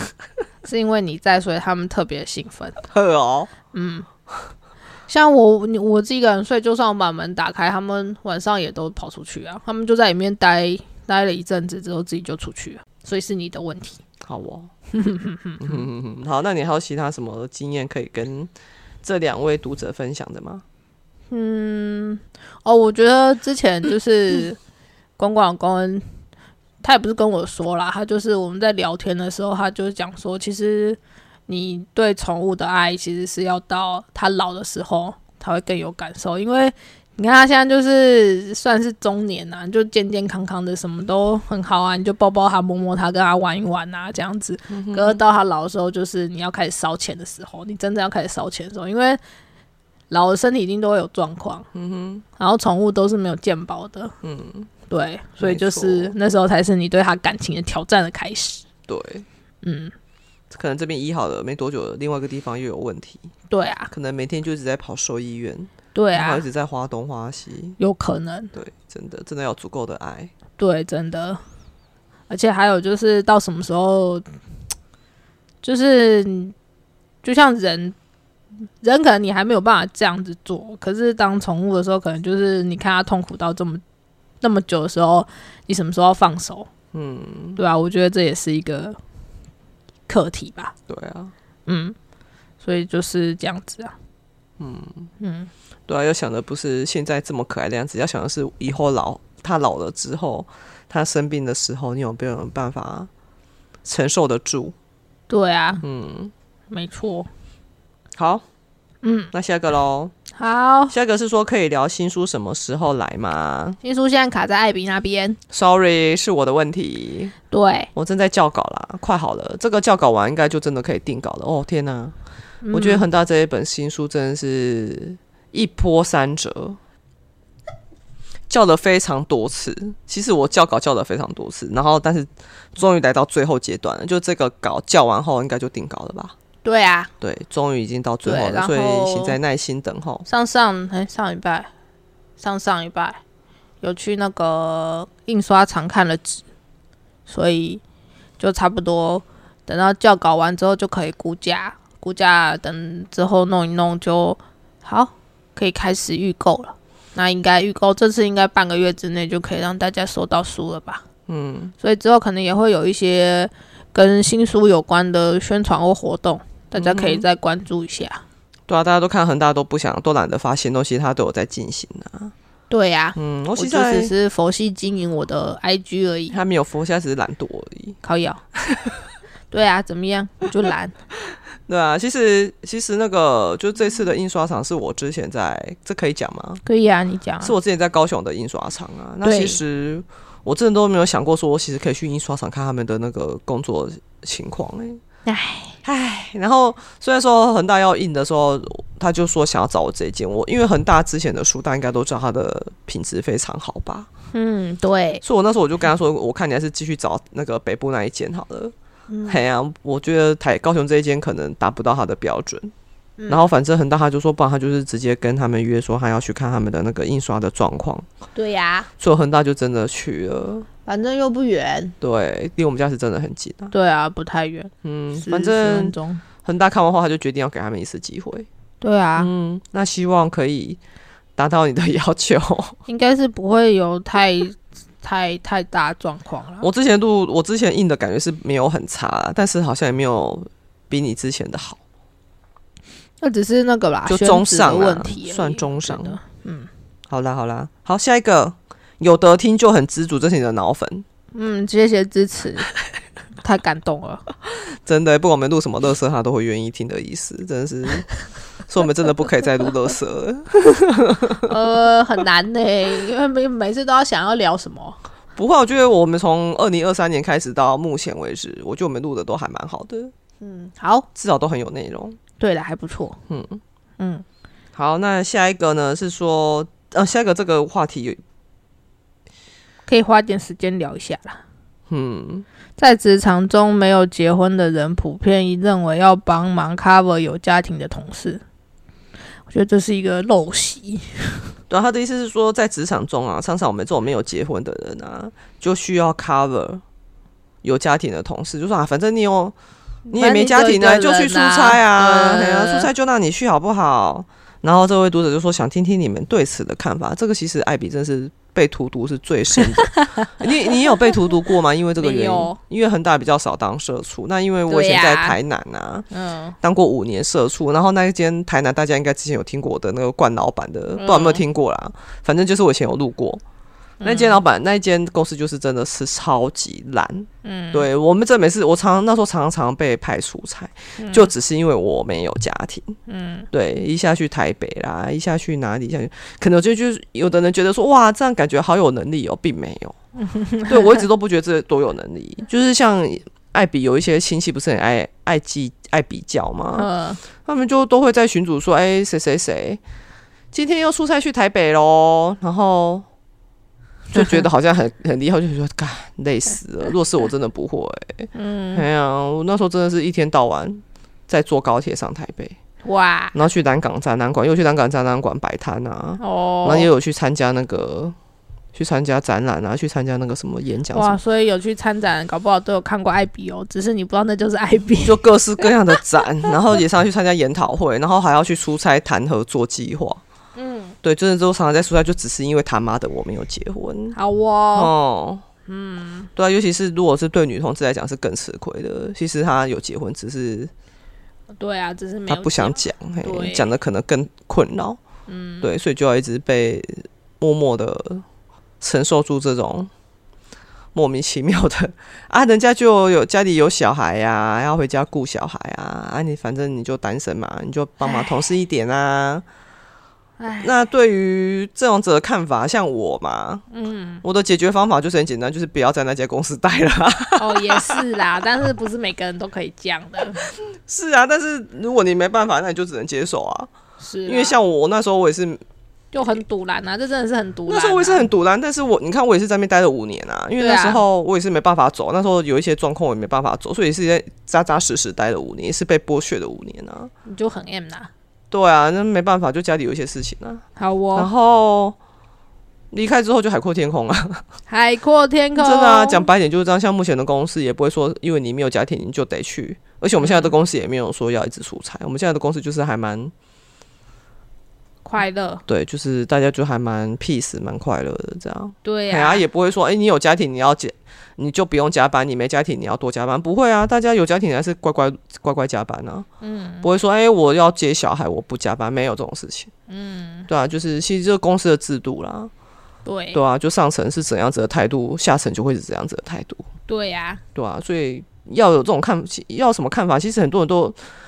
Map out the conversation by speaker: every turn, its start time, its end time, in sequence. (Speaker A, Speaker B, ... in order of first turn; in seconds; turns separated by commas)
Speaker A: 0.6-2.8, Speaker B: 2.9-3.5, Speaker A: 3.7-4.1, Speaker A: 5.1-14.0, Speaker B: 14.2-14.7, Speaker A: 14.9-15.8, Speaker B: 15.6-18.5, Speaker B: 19.0-20.6, Speaker A: 21.3-24.6, Speaker A: 25.2-26.1, Speaker A: 26.8-49.2, Speaker B: 44.7-45.2, Speaker A: 50.1-51.7, Speaker B: 51.7-52.2, Speaker A: 52.4-54.1, Speaker B: 54.2-54.7, Speaker A: 54.9-58.6, Speaker B: 55.4-56.1, Speaker B: 58.9-59.2, Speaker A: 59.6-59.9, Speaker B: 60.5-63.3, Speaker A: 63.5-63.9, Speaker B: 63.9-67.8, Speaker A: 65.9-66.4, Speaker A: 67.8-68.5, Speaker B: 68.5-70.3, Speaker A: 70.6-71.4, Speaker A: 72.3-74.2, Speaker A: 75.6-76.5, Speaker A: 77.2-77.9, Speaker A: 78.8-83.8, Speaker A: 84.4-86.7, Speaker B: 86.9-87.6, Speaker A: 87.6-89.0, Speaker A: 90.1-90.7, Speaker B: 90.9-91.3, Speaker A: 91.7-92.0, Speaker A: 92.6-93.9, Speaker B: 94.6-95.1, Speaker A: 95.2-95.5, Speaker B: 95.9-103.1, Speaker B: 103.8-104.7, Speaker A: 105.3-105.8, Speaker B: 105.8-106.3, Speaker A: 106.7-107.3, Speaker B: 108.2-108.4, Speaker A: 109.0-109.3, Speaker B: 109.3-110.1, Speaker A: 110.3-110.9, Speaker B: 110.9-113.8, Speaker A: 113.8-115.4, Speaker B: 115.5-117.3, Speaker A: 117.5-117.9, Speaker B: 117.9-122.1, Speaker A: 122.6-123.0, Speaker B: 122.7-126.8, Speaker B: 128.5-136.3, Speaker A: 136.6-137.1, Speaker B: 137.2-140.2, Speaker A: 138.2-139.4, Speaker A: 140.3-141.7, Speaker A: 142.4-143.2, Speaker A: 143.8-146.4, Speaker A: 147.3-147.8, Speaker A: 148.4-161.0, Speaker B: 161.3-161.7, Speaker A: 161.8-168.2, Speaker B: 166.7-167.2, Speaker B: 168.7-172.3, Speaker A: 172.7-176.3, Speaker B: 173.2-174.1, Speaker B: 176.3-178.0, Speaker A: 178.0-178.4, Speaker B: 178.5-179.0, Speaker A: 179.5-180.9, Speaker B: 181.7-186.6, Speaker A: 186.6-187.5, Speaker B: 187.4-195.0, Speaker A: 189.2-189.6, Speaker A: 195.2-195.8, Speaker B: 195.8-204.1, Speaker A: 204.3-205.2, Speaker B: 205.2-208.7, Speaker A: 209.1-209.4, Speaker B: 209.3-212.7, Speaker A: 213.2-213.5, Speaker B: 213.3-218.1, Speaker A: 218.3-218.9, Speaker B: 219.0-220.7, Speaker A: 220.8-221.9, Speaker B: 222.0-223.7, Speaker A: 223.7-226.2, Speaker B: 224.8-228.5, Speaker A: 228.8-229.3, Speaker B: 229.2-230.8, Speaker B: 231.3-232.8, Speaker A: 232.9-236.7, Speaker B: 236.6-241.8, Speaker A: 243.2-246.7, Speaker B: 244.1-246.2, Speaker B: 247.1-251.1, Speaker A: 251.3-252.7, Speaker A: 253.4-254.2, Speaker B: 254.6-258.1, Speaker B: 258.7-261.5, Speaker A: 261.4-265.0, Speaker B: 265.4-270.1, Speaker A: 270.4-271.1, Speaker B: 271.1-272.2, Speaker A: 272.4-273.2, Speaker B: 273.3-273.6, Speaker A: 274.0-274.2, Speaker B: 274.7-278.2, Speaker A: 279.9-281.4, Speaker B: 281.9-282.4, Speaker A: 282.8-288.4, Speaker A: 289.5-291.5, Speaker B: 291.7-296.8, Speaker B: 297.6-299.5, Speaker A: 300.1-302.9, Speaker B: 300.1-316.1, Speaker A: 309.6-311.1, Speaker A: 312.0-312.6, Speaker A: 314.7-315.4, Speaker A: 316.1-316.6, Speaker B: 316.6-323.4, Speaker A: 321.0-321.4, Speaker A: 324.0-324.4, Speaker B: 324.0-333.0, Speaker A: 327.4-327.9, Speaker A: 331.0-331.3, Speaker A: 333.1-333.5, Speaker B: 333.5-339.9, Speaker A: 340.2-341.1, Speaker B: 340.7-346.9, Speaker A: 346.7-347.2, Speaker B: 347.4-349.8, Speaker B: 350.5-353.1, Speaker B: 354.1-362.6, Speaker A: 358.3-358.9, Speaker A: 362.8-363.4, Speaker B: 363.3-368.1, Speaker A: 366.2-366.9, Speaker B: 368.7-371.2, Speaker A: 370.9-375.7, Speaker B: 375.0-380.2, Speaker A: 380.6-380.9, Speaker B: 381.0-384.1, Speaker A: 384.1-384.9, Speaker B: 384.7-385.4, Speaker A: 385.7-386.3, Speaker B: 386.4-390.7, Speaker A: 391.6-393.7, Speaker B: 392.3-395.0, Speaker A: 395.3-395.7, Speaker B: 395.6-398.2, Speaker B: 398.8-399.9, Speaker B: 400.9-409.4, Speaker A: 408.0-408.4, Speaker A: 410.4-410.7, Speaker B: 410.6-413.6, Speaker A: 413.7-414.2, Speaker B: 414.2-418.1, Speaker A: 417.4-420.4, Speaker B: 420.4-423.7, Speaker A: 424.0-424.6, Speaker B: 424.2-425.6, Speaker A: 426.1-428.3, Speaker B: 427.7-437.1, Speaker A: 430.6-431.0, Speaker A: 437.2-438.1, Speaker B: 438.5-440.6, Speaker A: 440.8-441.3, Speaker B: 441.1-442.0, Speaker B: 442.9-444.4, Speaker A: 444.7-446.3, Speaker B: 445.6-453.3, Speaker A: 450.2-450.5, Speaker A: 455.0-455.6, Speaker B: 455.7-466.3, Speaker A: 458.8-459.4, Speaker A: 466.4-466.9, Speaker B: 466.8-469.7, Speaker A: 469.9-470.5, Speaker B: 470.5-472.5, Speaker A: 473.0-473.4, Speaker B: 473.3-476.6, Speaker A: 476.9-477.4, Speaker B: 477.5-481.0